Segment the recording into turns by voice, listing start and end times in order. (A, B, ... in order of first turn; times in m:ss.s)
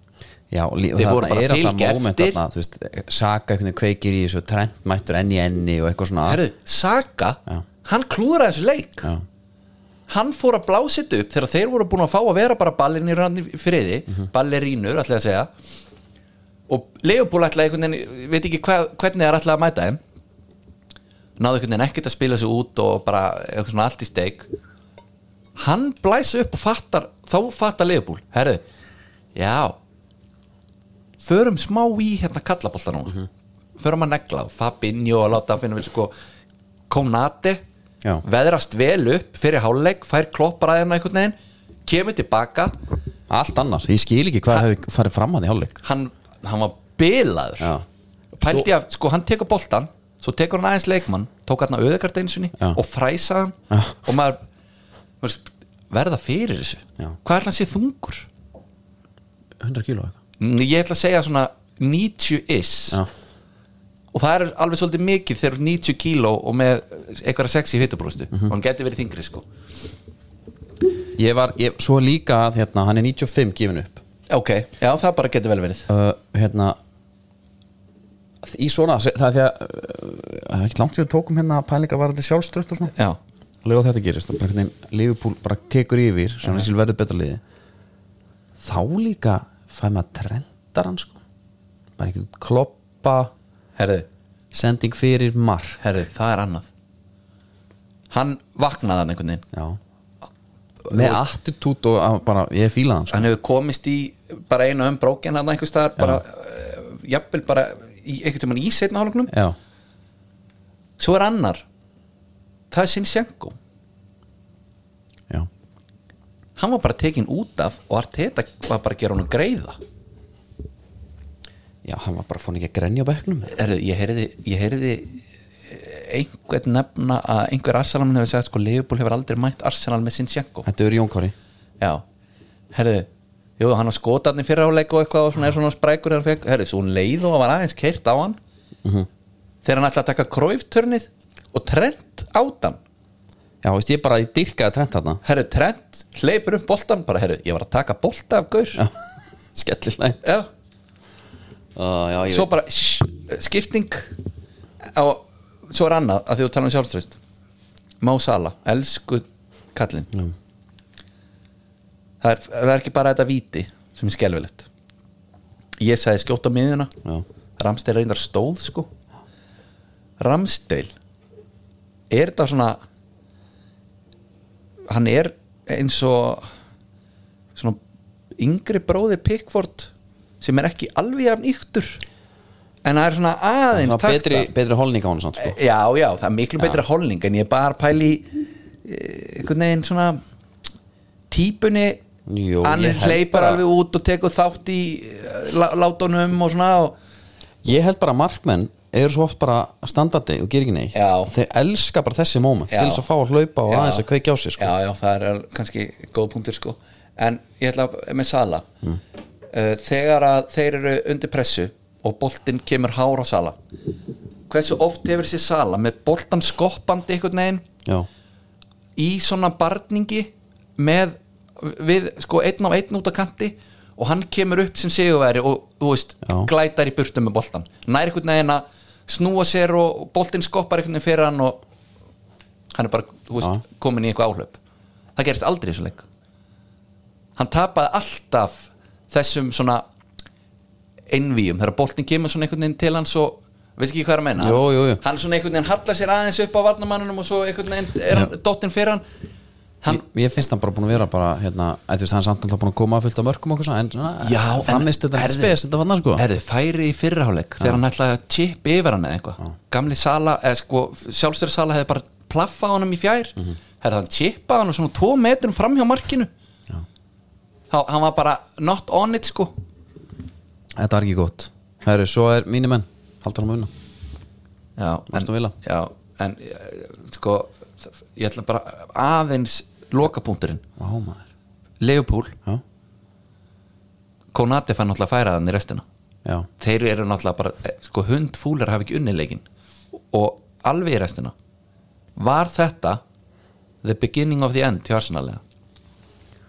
0:00.5-0:06.4 A
0:01.0-0:02.4 B
0:06.2-0:09.1 B
0:10.1-0:15.5 B
0:16.7-0:20.0 B
0:21.4-0:24.5 B
0:25.6-0:28.6 B
0:29.4-0:29.8 B
0:31.2-0:33.3 B
0:33.8-0:36.1 B
0:36.9-0:37.6 B
0:38.2-0:41.4 B
0:41.9-0:42.8 B
0:43.3-0:45.8 A
0:45.8-0:47.7 B
0:47.6-0:47.8 A
0:48.4-0:48.7 A
0:48.4-0:54.4 B
0:53.7-0:54.0 A
0:55.2-0:58.3 B
0:59.6-1:00.2 A
1:00.4-1:03.0 B
1:04.1-1:09.4 B
1:11.2-1:14.0 A
1:14.3-1:15.9 B
1:15.9-1:16.8 A
1:18.4-1:22.9 A
1:22.9-1:23.2 B
1:23.6-1:27.4 A
1:28.6-1:31.2 A
1:32.0-1:33.3 A
1:33.8-1:34.1 B
1:34.5-1:35.8 A
1:35.8-1:36.7 B
1:38.1-1:39.4 B
1:39.5-1:39.8 A
1:40.8-1:41.2 B
1:40.9-1:43.3 A
1:43.1-1:49.3 B
1:49.3-1:49.6 A
1:51.0-1:51.6 B
1:52.7-1:53.6 B
1:56.6-1:59.8 B
2:01.8-2:03.6 A
2:03.5-2:10.7 B
2:10.6-2:11.4 A
2:12.7-2:13.1 B
2:13.6-2:18.4 B
2:19.6-2:22.8 B
2:23.6-2:25.2 A
2:25.2-2:28.8 B
2:29.5-2:30.2 A
2:30.2-2:30.5 B
2:31.8-2:32.5 A
2:32.3-2:34.1 B
2:34.9-2:37.2 B
2:38.0-2:40.1 B
2:42.2-2:44.7 B
2:45.8-2:46.9 B
2:47.6-2:48.9 B
2:50.2-2:50.9 B
2:52.1-2:52.8 B
2:54.9-2:56.5 B
2:58.4-3:02.0 B
3:02.8-3:04.5 B
3:03.8-3:05.6 A
3:05.4-3:10.2 B
3:11.3-3:12.0 B
3:12.3-3:13.6 A
3:12.6-3:17.0 B
3:17.6-3:24.8 A
3:20.9-3:21.3 B
3:22.7-3:23.1 B
3:23.7-3:24.1 B
3:24.6-3:28.7 B
3:29.5-3:33.6 B
3:34.5-3:37.7 B
3:39.0-3:51.6 B
3:46.2-3:46.5 A
3:52.7-3:54.6 B
3:55.2-3:56.1 B
3:57.4-3:59.8 B
4:01.1-4:09.0 B
4:04.4-4:05.0 A
4:09.9-4:16.2 A
4:14.2-4:15.6 B
4:16.2-4:26.3 B
4:27.7-4:29.5 B
4:30.8-4:33.7 A
4:34.8-4:40.6 B
4:35.1-4:35.5 A
4:40.8-4:41.3 A
4:41.8-4:42.4 B
4:44.3-4:45.8 B
4:46.6-4:49.4 B
4:50.0-4:51.3 B
4:52.2-4:53.0 B
4:53.8-4:55.4 B